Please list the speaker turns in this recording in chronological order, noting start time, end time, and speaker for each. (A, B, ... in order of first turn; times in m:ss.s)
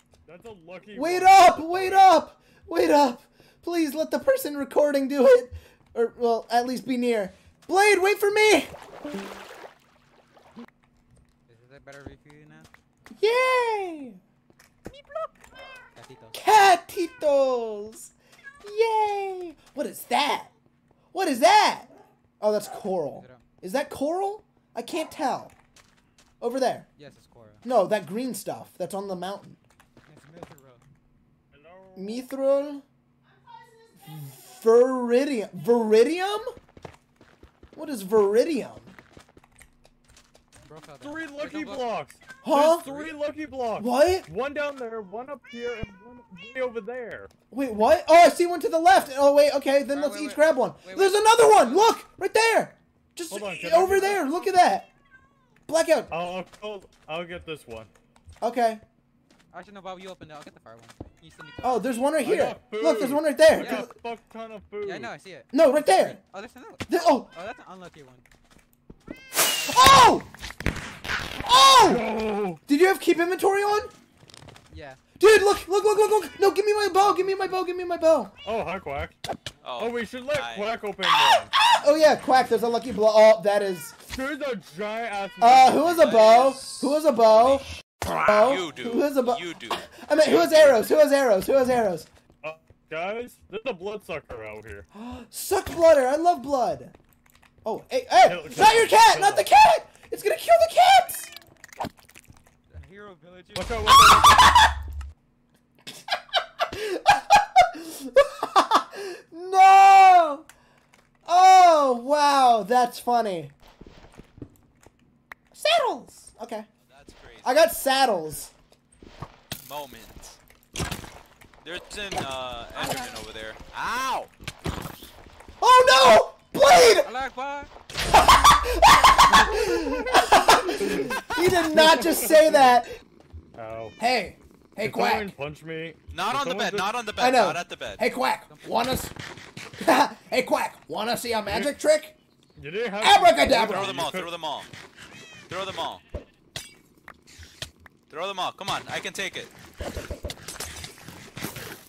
0:00.3-0:02.1 A
0:00.9-0:08.7 B
0:11.5-0:12.7 C
0:13.2-0:14.2 B
0:14.9-0:15.3 C
0:16.0-0:16.4 C
0:16.4-0:18.1 B
0:18.6-0:20.5 B
0:21.1-0:25.5 B
0:23.1-0:23.4 C
0:26.4-0:26.9 B
0:27.0-0:27.6 C
0:27.6-0:29.6 B
0:30.1-0:30.8 C
0:31.5-0:32.2 A
0:32.0-0:32.8 B
0:34.0-0:36.6 B
0:37.8-0:39.0 B
0:40.7-0:41.9 C
0:41.0-0:47.3 A
0:42.4-0:43.1 B
0:43.8-0:44.3 B
0:47.5-0:54.9 B
0:49.9-0:51.9 C
0:53.3-0:54.3 A
0:55.7-0:56.1 B
0:56.1-0:57.9 A
0:58.4-0:58.8 B
0:59.5-1:01.9 C
1:01.6-1:03.9 B
1:02.2-1:05.1 A
1:03.6-1:03.9 C
1:04.8-1:08.2 C
1:05.5-1:06.2 B
1:06.9-1:07.3 B
1:09.4-1:10.1 C
1:09.7-1:10.3 B
1:11.4-1:12.0 B
1:11.7-1:12.6 A
1:12.7-1:13.9 B
1:14.7-1:15.0 C
1:15.2-1:18.3 B
1:17.0-1:17.6 C
1:18.4-1:19.2 A
1:19.6-1:20.7 D
1:19.8-1:21.5 A
1:21.4-1:24.1 B
1:24.1-1:26.2 A
1:25.4-1:32.1 B
1:25.9-1:30.9 D
1:32.4-1:34.9 A
1:34.9-1:37.0 B
1:37.6-1:41.3 B
1:38.2-1:39.5 A
1:42.7-1:43.9 C
1:43.6-1:44.6 A
1:44.0-1:44.6 B
1:46.6-1:50.5 B
1:51.3-1:53.5 B
1:55.5-1:56.7 B
1:56.9-1:57.6 D
1:57.4-1:58.5 B
1:59.6-2:00.4 D
2:01.6-2:04.3 D
2:02.8-2:03.1 C
2:05.6-2:07.1 B
2:06.8-2:07.7 C
2:08.1-2:13.0 B
2:10.8-2:12.8 A
2:13.6-2:14.0 A
2:14.0-2:15.3 B
2:14.8-2:17.0 A
2:16.1-2:18.0 D
2:17.2-2:19.1 B
2:18.5-2:18.9 C
2:19.8-2:22.2 B
2:21.5-2:21.7 A
2:22.6-2:24.3 A
2:23.0-2:24.0 B
2:23.6-2:24.7 D
2:25.5-2:26.0 D
2:28.1-2:29.5 D